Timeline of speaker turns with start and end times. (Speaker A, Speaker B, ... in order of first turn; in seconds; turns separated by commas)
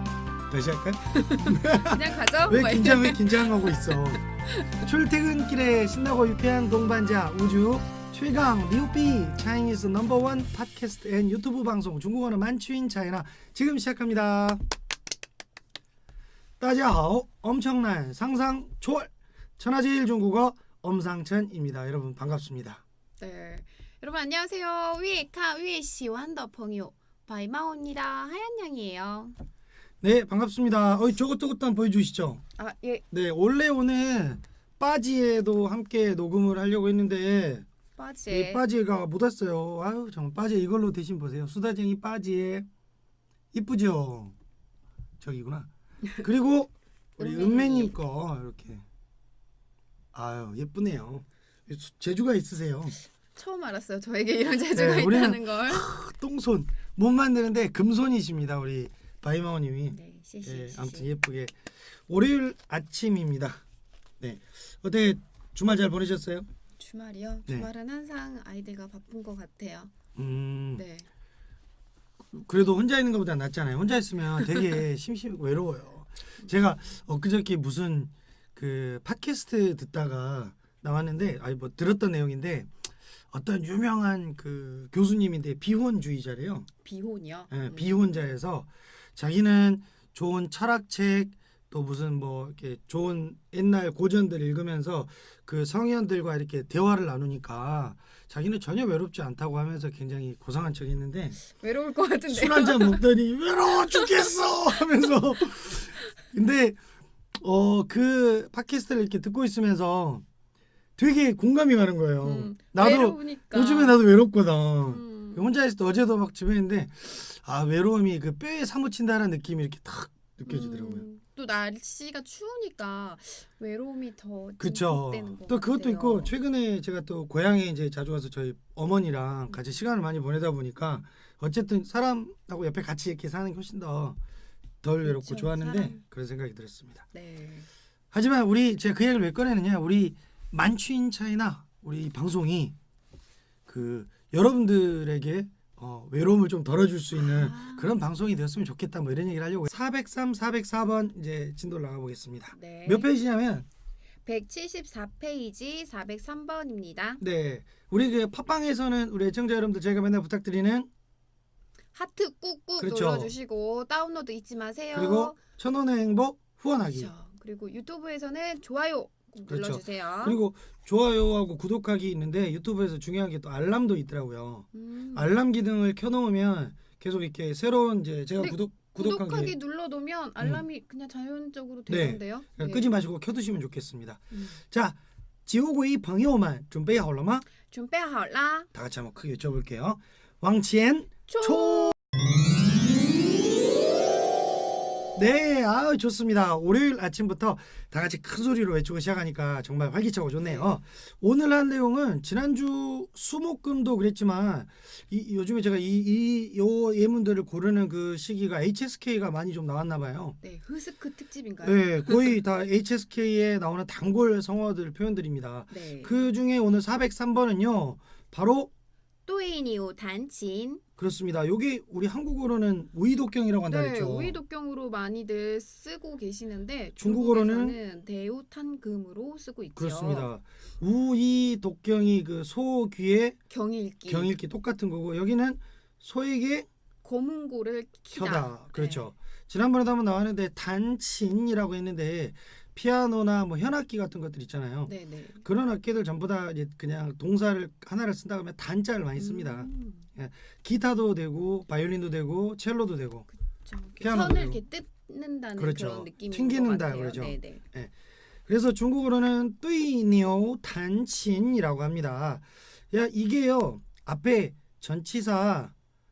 Speaker A: 0.5-4.2, Speaker B: 1.1-4.8, Speaker A: 4.8-14.6, Speaker A: 16.6-22.8, Speaker B: 23.2-29.4, Speaker A: 30.0-32.4, Speaker B: 32.6-33.0, Speaker A: 33.1-37.6, Speaker B: 38.0-38.6, Speaker A: 38.3-42.7, Speaker A: 43.5-44.3, Speaker A: 45.2-48.8, Speaker B: 47.2-47.9, Speaker A: 50.1-53.0, Speaker B: 53.3-55.8, Speaker A: 54.7-63.6, Speaker B: 59.9-61.2, Speaker A: 64.2-66.5, Speaker B: 66.8-69.9, Speaker A: 70.2-70.8, Speaker B: 70.8-71.1, Speaker A: 72.3-82.7, Speaker A: 83.3-86.7, Speaker B: 86.8-88.1, Speaker A: 87.5-101.4, Speaker B: 101.4-103.1, Speaker A: 102.3-106.8, Speaker A: 107.3-110.2, Speaker A: 111.0-121.1, Speaker B: 112.2-114.0, Speaker B: 114.8-115.4, Speaker B: 120.5-126.3, Speaker A: 124.6-134.2, Speaker A: 134.8-137.0, Speaker B: 135.0-136.0, Speaker B: 137.1-137.7, Speaker A: 138.1-142.7, Speaker A: 143.7-153.7, Speaker B: 147.2-147.9, Speaker B: 152.5-153.1, Speaker B: 154.2-157.2, Speaker A: 157.2-160.9, Speaker B: 161.9-165.4, Speaker A: 162.8-163.3, Speaker A: 164.9-167.1, Speaker B: 166.8-170.4, Speaker A: 169.5-179.5, Speaker B: 174.7-175.3, Speaker B: 178.4-182.9, Speaker A: 181.9-187.4, Speaker B: 184.3-184.6, Speaker B: 187.6-188.7, Speaker A: 188.7-191.9, Speaker B: 191.3-191.9, Speaker A: 195.2-210.4, Speaker B: 200.4-200.7, Speaker B: 210.4-212.3, Speaker A: 211.6-218.7, Speaker B: 215.7-216.3, Speaker B: 219.2-220.8, Speaker A: 221.0-224.4, Speaker B: 223.7-230.3, Speaker A: 227.0-227.8, Speaker A: 229.8-233.4, Speaker B: 233.5-234.3, Speaker A: 234.1-236.7, Speaker B: 237.0-239.1, Speaker A: 238.1-244.9, Speaker B: 244.8-245.4, Speaker A: 245.4-253.3, Speaker B: 249.2-250.0, Speaker B: 253.6-257.6, Speaker A: 254.0-254.6, Speaker A: 255.6-257.9, Speaker A: 258.5-265.7